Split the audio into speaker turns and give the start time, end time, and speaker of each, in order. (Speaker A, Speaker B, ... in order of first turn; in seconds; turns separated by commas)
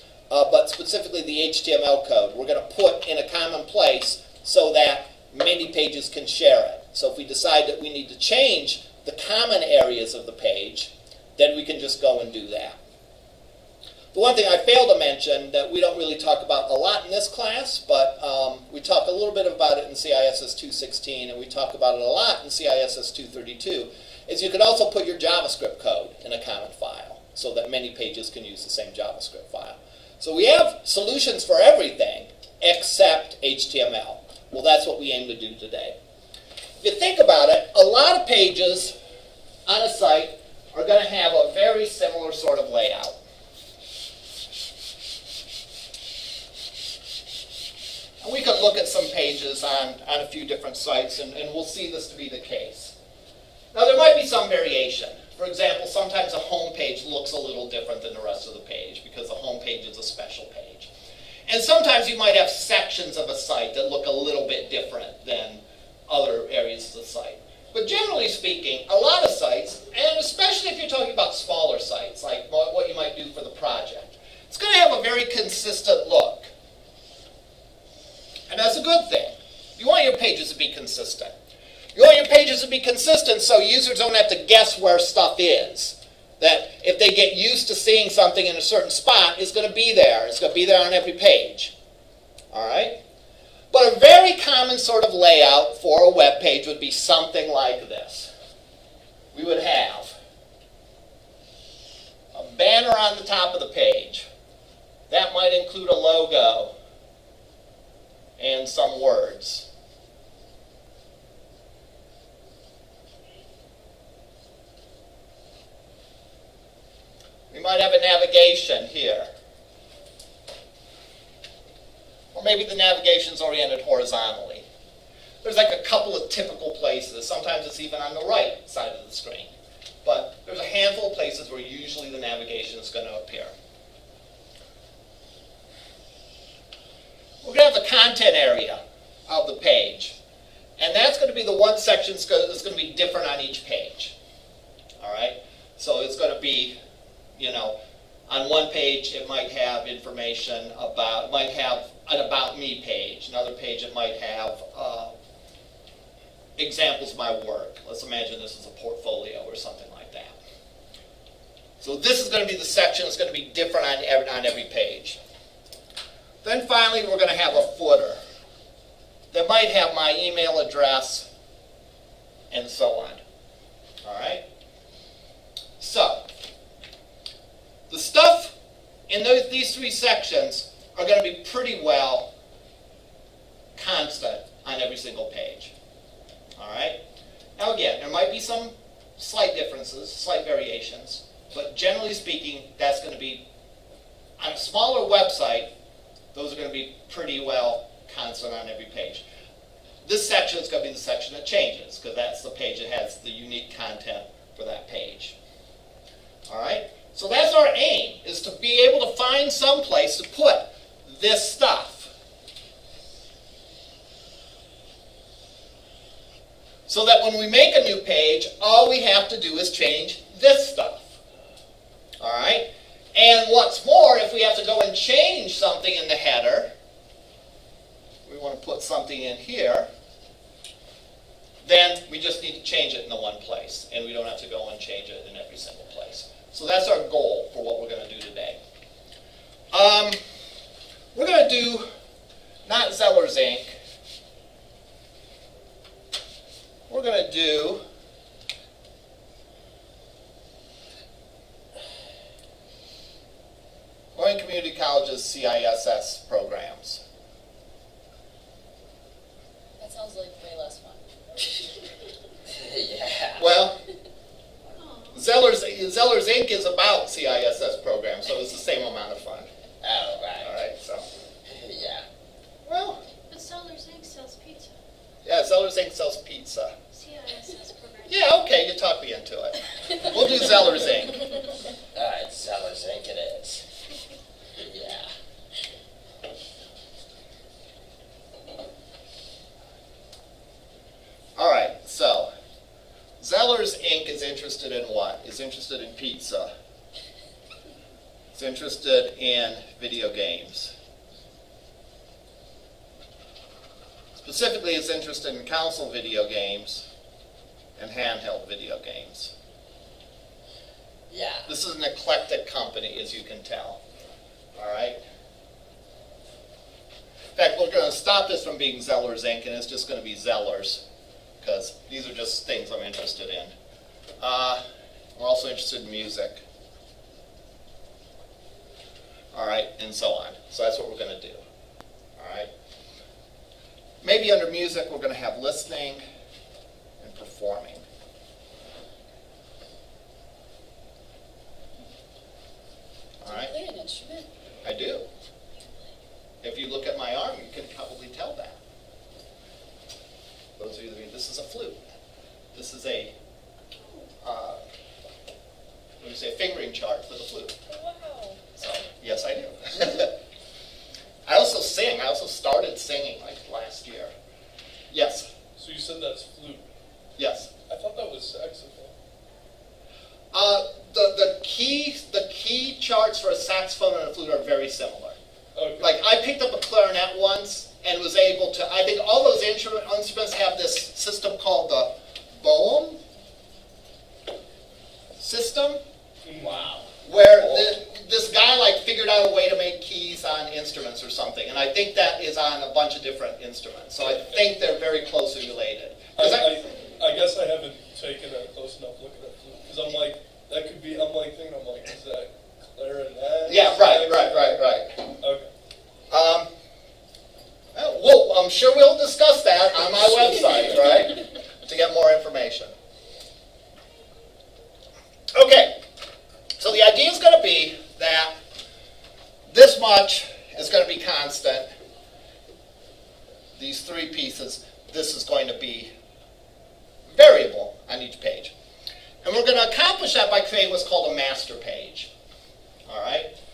Speaker A: 0.3-12.8, Speaker A: 14.1-36.0, Speaker A: 36.8-39.0, Speaker A: 39.7-43.2, Speaker A: 48.2-53.0, Speaker A: 53.7-60.9, Speaker A: 61.5-76.5, Speaker A: 78.5-81.3, Speaker A: 82.0-91.7, Speaker A: 92.5-93.0, Speaker A: 93.7-98.3, Speaker A: 99.3-100.2, Speaker A: 102.3-104.3, Speaker A: 105.1-106.7, Speaker A: 108.4-109.7, Speaker A: 117.5-119.3, Speaker A: 122.3-124.7, Speaker A: 125.4-129.5, Speaker A: 130.0-133.5, Speaker A: 137.4-140.2, Speaker A: 140.8-144.2, Speaker A: 145.0-146.8, Speaker A: 147.4-147.8, Speaker A: 148.3-155.1, Speaker A: 156.6-160.4, Speaker A: 161.8-165.2, Speaker A: 166.4-168.2, Speaker A: 169.3-171.3, Speaker A: 172.5-173.2, Speaker A: 174.0-174.4, Speaker A: 175.8-176.3, Speaker A: 177.9-178.6, Speaker A: 179.1-182.3, Speaker A: 183.8-185.7, Speaker A: 186.6-187.0, Speaker A: 187.6-193.4, Speaker A: 194.4-195.7, Speaker A: 196.3-199.2, Speaker A: 200.0-205.4, Speaker A: 206.5-212.1, Speaker A: 216.9-221.2, Speaker A: 222.2-226.7, Speaker A: 228.3-229.9, Speaker A: 231.6-238.6, Speaker A: 239.7-240.2, Speaker A: 241.2-241.9, Speaker A: 242.7-243.8, Speaker A: 246.9-247.8, Speaker A: 254.2-257.0, Speaker B: 259.8-261.7, Speaker C: 262.5-263.5, Speaker A: 263.4-263.8, Speaker D: 264.8-265.2, Speaker A: 265.1-269.5, Speaker C: 269.8-270.5, Speaker A: 270.4-271.1, Speaker C: 271.4-272.1, Speaker A: 272.6-273.0, Speaker D: 273.3-274.8, Speaker A: 275.2-276.8, Speaker D: 276.9-278.3, Speaker A: 278.1-281.2, Speaker C: 281.9-283.6, Speaker C: 284.6-285.1, Speaker A: 291.4-292.3, Speaker A: 293.2-296.5, Speaker A: 298.4-300.7, Speaker A: 304.2-306.9, Speaker A: 307.8-309.3, Speaker C: 311.1-311.5, Speaker A: 311.5-313.8, Speaker A: 314.6-315.0, Speaker A: 317.4-320.8, Speaker A: 321.4-323.5, Speaker A: 324.2-324.6, Speaker A: 325.2-326.4, Speaker A: 329.3-331.4, Speaker A: 332.2-332.5, Speaker A: 334.0-336.0, Speaker A: 337.0-337.9, Speaker A: 343.2-343.5, Speaker B: 343.3-344.3, Speaker A: 344.6-345.1, Speaker A: 346.4-348.6, Speaker A: 350.6-351.8, Speaker A: 352.5-353.1, Speaker A: 354.2-354.6, Speaker A: 356.0-357.6, Speaker B: 357.7-358.6, Speaker A: 358.6-360.1, Speaker A: 361.3-364.1, Speaker A: 364.9-365.3, Speaker E: 365.6-366.7, Speaker A: 367.2-367.5, Speaker E: 367.7-368.9, Speaker A: 370.3-375.2, Speaker E: 375.6-375.9, Speaker A: 375.8-383.0, Speaker A: 385.2-385.8, Speaker E: 386.2-386.7, Speaker C: 386.4-386.8, Speaker A: 387.0-396.5, Speaker E: 396.2-404.3, Speaker A: 403.5-405.0, Speaker E: 405.2-405.5, Speaker A: 406.1-406.5, Speaker A: 407.7-412.7, Speaker A: 415.3-415.8, Speaker A: 416.6-418.3, Speaker A: 419.5-421.7, Speaker A: 423.6-425.9, Speaker A: 427.1-428.5, Speaker A: 429.2-432.1, Speaker A: 432.9-433.3